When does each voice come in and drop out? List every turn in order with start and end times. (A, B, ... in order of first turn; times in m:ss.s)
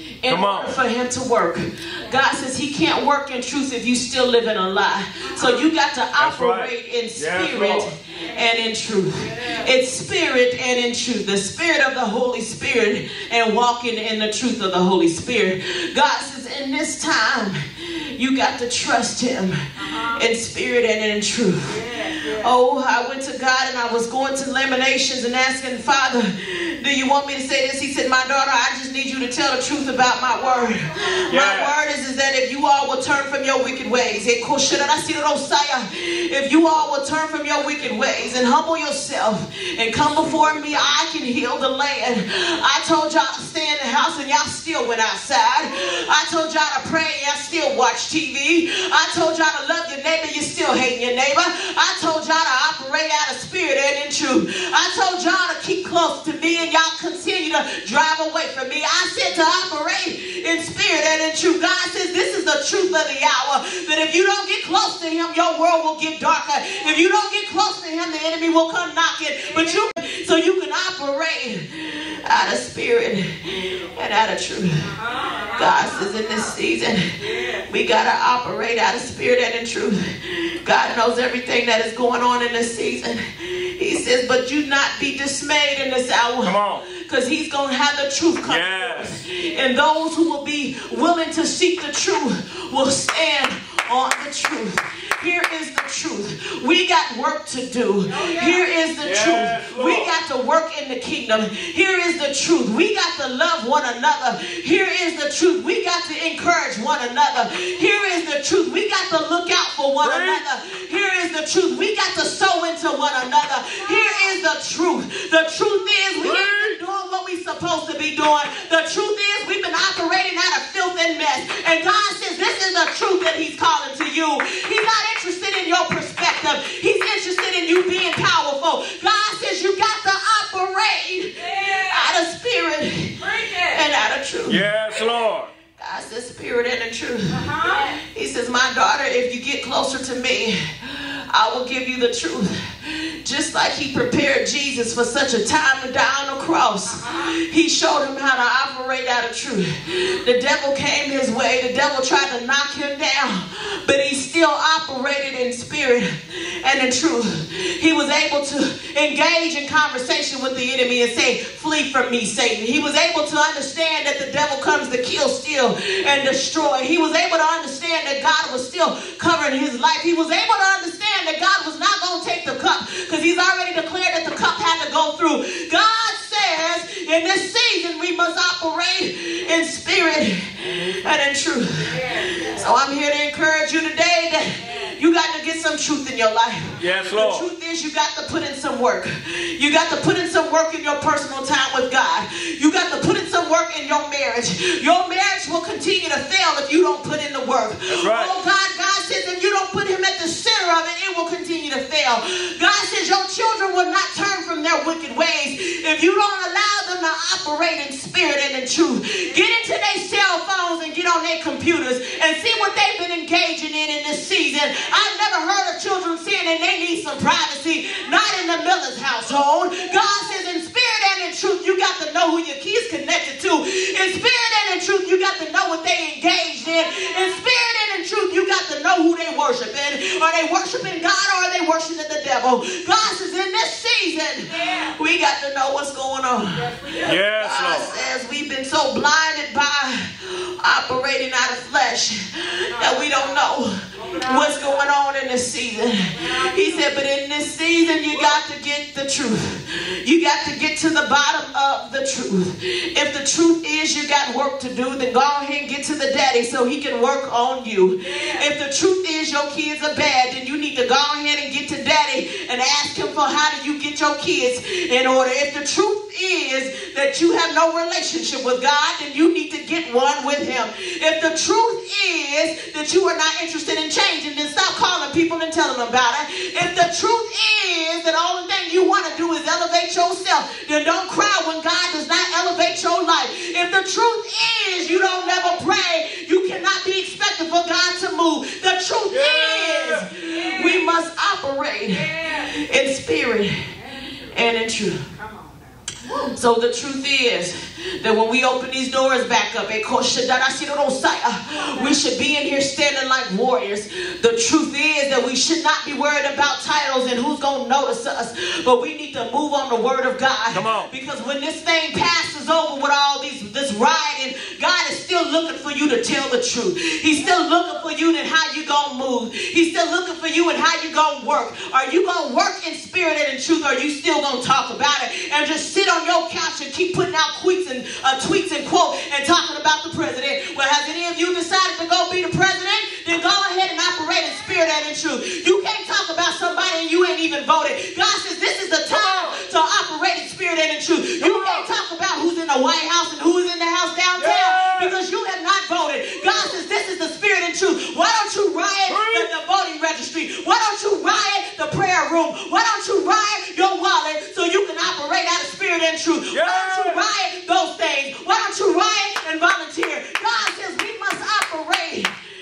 0:00.2-1:14.9 A
0:00.3-0:00.8 B
0:05.3-0:05.6 C
0:06.2-0:07.9 B
0:09.2-0:09.7 C
0:19.8-0:20.2 C
0:21.6-0:22.5 C
0:30.3-0:31.0 C
0:31.3-0:31.7 B
0:40.1-0:41.0 B
1:09.5-1:09.8 C
1:14.9-1:16.5 C
1:15.5-2:14.6 A
1:17.2-1:17.7 C
1:26.4-1:26.8 B
1:28.4-1:29.2 B
1:38.1-1:38.6 C
1:39.0-1:40.2 B
1:50.0-1:50.4 B
1:56.2-1:56.8 B
2:11.4-2:12.2 C
2:13.2-2:13.8 C
2:14.5-2:15.5 B
2:15.8-4:53.7 A
2:17.3-2:18.0 C
2:27.0-2:27.3 C
3:00.7-3:01.0 B
3:01.8-3:02.7 C
3:04.6-3:04.9 C
3:06.8-3:07.5 B
3:17.9-3:18.3 B
3:29.2-3:29.5 C
3:54.5-3:55.0 C
3:56.6-3:58.0 C
3:57.0-3:57.9 B
4:02.7-4:04.9 C
4:06.1-4:06.9 C
4:18.0-4:18.4 C
4:49.1-4:50.1 B
4:50.2-4:50.9 C
4:51.9-4:52.6 C
4:53.8-4:54.2 C
4:54.3-4:55.0 A
4:55.1-4:55.9 C
4:56.2-6:02.1 A
5:10.5-5:10.9 B
5:38.9-5:39.4 B
5:41.2-5:41.7 B
5:44.2-5:44.9 B
5:48.9-5:49.3 B
5:56.3-5:57.1 B